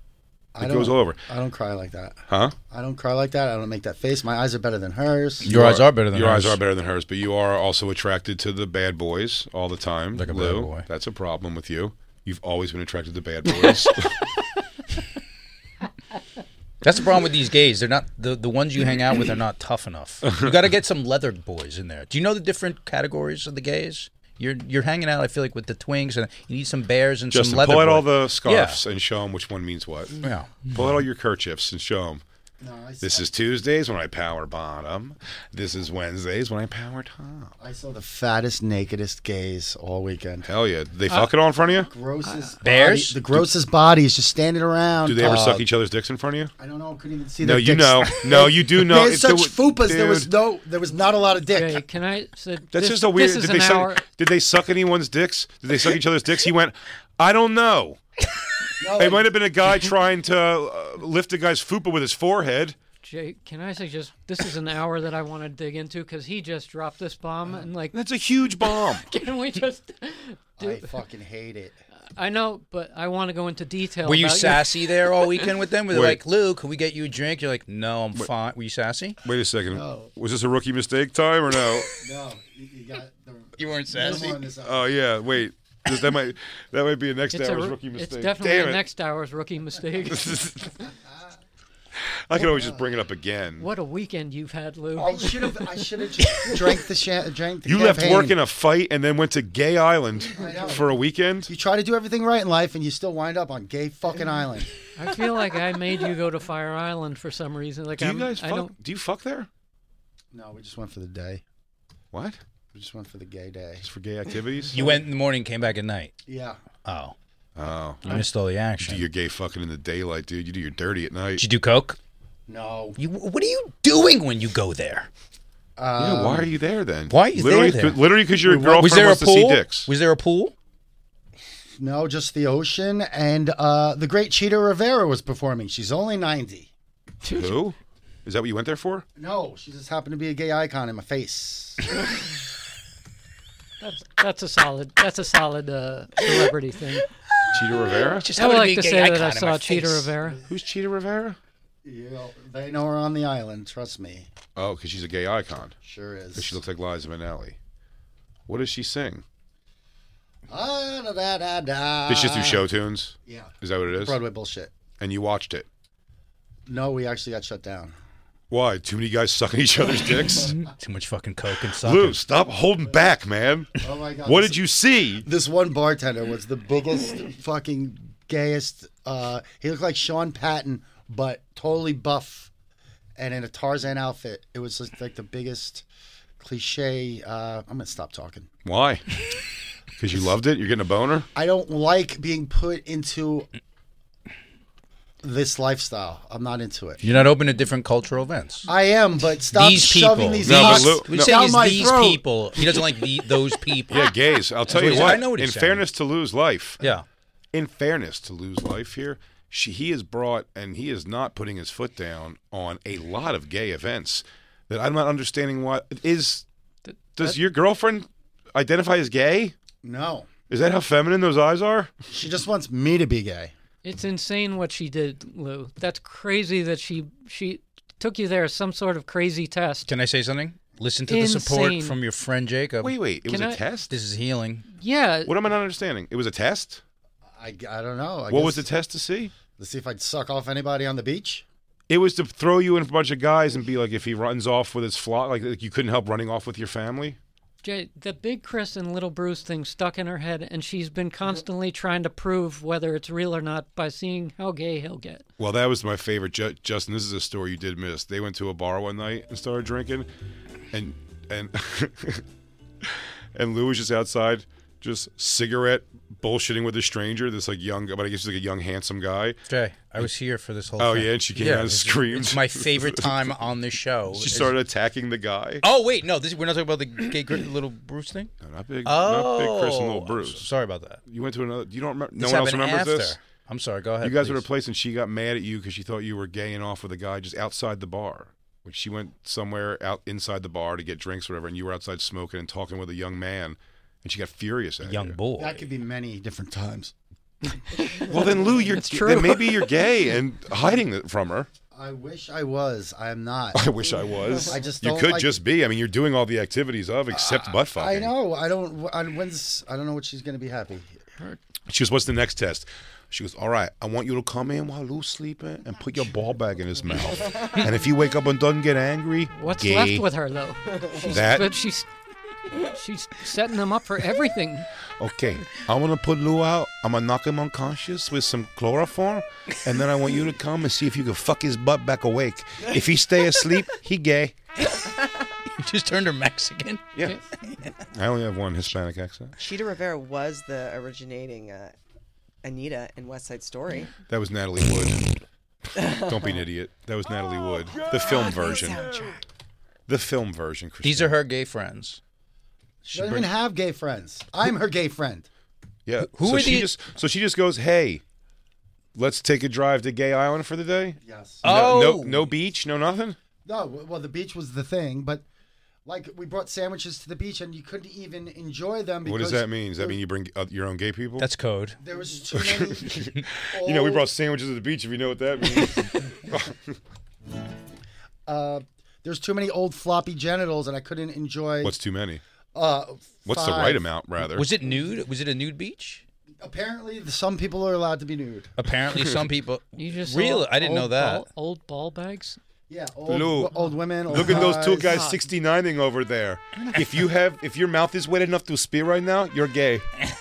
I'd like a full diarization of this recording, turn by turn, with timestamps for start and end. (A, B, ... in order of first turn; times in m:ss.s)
0:00.5-0:05.5 A
0:00.6-0:01.2 B
0:02.3-0:02.5 B
0:05.4-0:14.2 B
0:05.4-0:06.6 C
0:10.1-0:10.8 C
0:16.8-0:28.8 C
0:20.2-0:20.5 B
0:27.3-0:30.2 B
0:30.2-0:30.9 C
0:30.7-0:32.2 B
0:32.6-0:33.3 A
0:33.0-0:37.6 B
0:37.6-0:40.5 A
0:40.4-0:41.9 B
0:41.8-0:45.7 A
0:42.2-0:42.6 D
0:42.6-0:43.3 C
0:45.0-0:46.5 B
0:46.6-0:51.8 A
0:47.4-0:50.3 B
0:51.5-0:54.0 D
0:52.7-0:58.0 B
0:58.8-0:59.3 A
0:59.0-1:02.8 B
1:03.0-1:08.0 D
1:07.9-1:09.0 B
1:08.6-1:10.9 D
1:10.6-1:11.8 A
1:12.2-1:15.2 D
1:14.0-1:19.2 C
1:15.9-1:16.2 B
1:19.2-1:22.0 B
1:19.7-1:20.1 A
1:22.0-1:24.9 A
1:23.6-1:24.4 C
1:24.6-1:28.8 B
1:27.3-1:30.3 D
1:30.0-1:30.7 B
1:30.9-1:31.3 A
1:32.0-1:33.7 B
1:32.4-1:32.8 A
1:33.6-1:36.8 D
1:35.0-1:38.4 A
1:37.6-1:41.5 B
1:40.4-1:44.7 A
1:44.9-1:48.7 D
1:48.0-1:49.5 B
1:50.3-1:51.4 A
1:52.1-1:52.4 B
1:52.7-1:53.8 A
1:53.8-1:54.8 B
1:54.7-1:56.1 C
1:56.3-1:56.6 A
1:56.8-1:57.1 C
1:57.6-1:58.3 B
1:58.0-1:59.0 C
1:58.8-2:01.4 B
2:01.4-2:02.0 C
2:02.5-2:03.0 A
2:03.0-2:05.1 C
2:05.8-2:06.5 A
2:06.0-2:09.9 B
2:07.1-2:08.0 C
2:08.4-2:09.0 A
2:08.6-2:10.5 C
2:11.8-2:16.7 A
2:17.3-2:19.0 B
2:19.2-2:22.0 A
2:23.8-2:27.1 D
2:27.5-2:28.3 B
2:28.2-2:30.1 C
2:28.3-2:30.4 D
2:30.5-2:31.4 B
2:31.8-2:34.3 A
2:34.5-2:35.8 B
2:35.8-2:36.6 A
2:36.4-2:37.6 B
2:38.5-2:39.2 B
2:40.5-2:42.6 A
2:42.1-2:44.2 B
2:43.2-2:44.7 A
2:45.0-2:45.6 B
2:46.6-2:47.9 A
2:48.5-2:50.6 B
2:50.5-2:52.2 C
2:51.7-2:53.7 B
2:53.8-2:54.6 A
2:54.2-2:55.2 B
2:55.2-3:02.5 A
3:03.2-3:05.8 A
3:06.4-3:08.5 A
3:08.6-3:09.0 B
3:10.0-3:11.3 B
3:11.3-3:13.5 A
3:15.2-3:17.0 A
3:17.0-3:18.7 C
3:18.7-3:23.0 A
3:19.5-3:24.1 C
3:20.4-3:21.8 B
3:23.9-3:26.8 B
3:24.6-3:25.8 C
3:26.8-3:27.0 C
3:27.5-3:36.4 B
3:36.8-3:37.4 D
3:37.2-3:39.5 B
3:39.8-3:40.3 A
3:40.5-3:41.9 B
3:42.1-3:43.5 A
3:43.8-3:49.9 D
3:49.9-3:52.9 C
3:51.1-3:52.0 D
3:52.8-3:53.9 B
3:53.2-3:53.6 D
3:53.9-3:54.6 C
3:54.8-3:55.3 D
3:55.2-3:56.8 B
3:57.4-3:58.7 A
3:58.3-3:59.3 B
3:59.5-4:01.4 A
4:01.9-4:07.2 B
4:07.6-4:15.2 D
4:15.4-4:20.1 B
4:20.7-4:22.2 B
4:22.8-4:29.4 B
4:29.5-4:34.5 C
4:30.8-4:33.1 B
4:34.1-4:35.6 B
4:35.6-4:38.3 C
4:38.4-4:40.5 B
4:38.8-4:41.0 C
4:41.0-4:43.2 B
4:42.2-4:44.4 C
4:44.0-4:55.2 B
4:54.8-4:55.6 C
4:55.4-4:56.9 A
4:57.8-4:59.7 D
4:58.0-5:01.5 B
5:01.7-5:03.6 A
5:03.5-5:08.1 B
5:04.4-5:05.4 A
5:07.1-5:10.9 A
5:11.7-5:20.0 B
5:19.3-5:21.9 D
5:21.0-5:21.5 B
5:22.5-5:24.7 D
5:25.0-5:34.3 B
5:35.5-5:37.8 C
5:37.9-5:39.3 B
5:39.4-5:41.7 E
5:42.4-5:43.9 E
5:44.1-5:45.1 B
5:45.7-5:49.2 B
5:45.8-5:46.3 E
5:47.8-5:49.1 E
5:49.9-5:51.2 B
5:50.8-5:52.0 C
5:52.8-5:55.3 A
5:52.9-5:53.2 C
5:55.8-5:58.0 B
5:56.1-5:56.7 C
5:59.0-6:03.2 B
6:01.0-6:01.4 A
6:01.4-6:02.3 C
6:03.4-6:05.2 A
6:05.8-6:10.0 A
6:09.0-6:11.3 B
6:11.2-6:11.8 C
6:11.8-6:14.1 A
6:12.3-6:16.8 B
6:18.2-6:21.8 A
6:21.6-6:22.2 B
6:22.5-6:23.9 A
6:23.2-6:24.5 B
6:24.3-6:26.0 C
6:26.4-6:28.5 A
6:28.6-6:31.2 C
6:29.8-6:32.4 D
6:32.7-6:35.0 A
6:33.0-6:39.8 B
6:34.4-6:35.2 D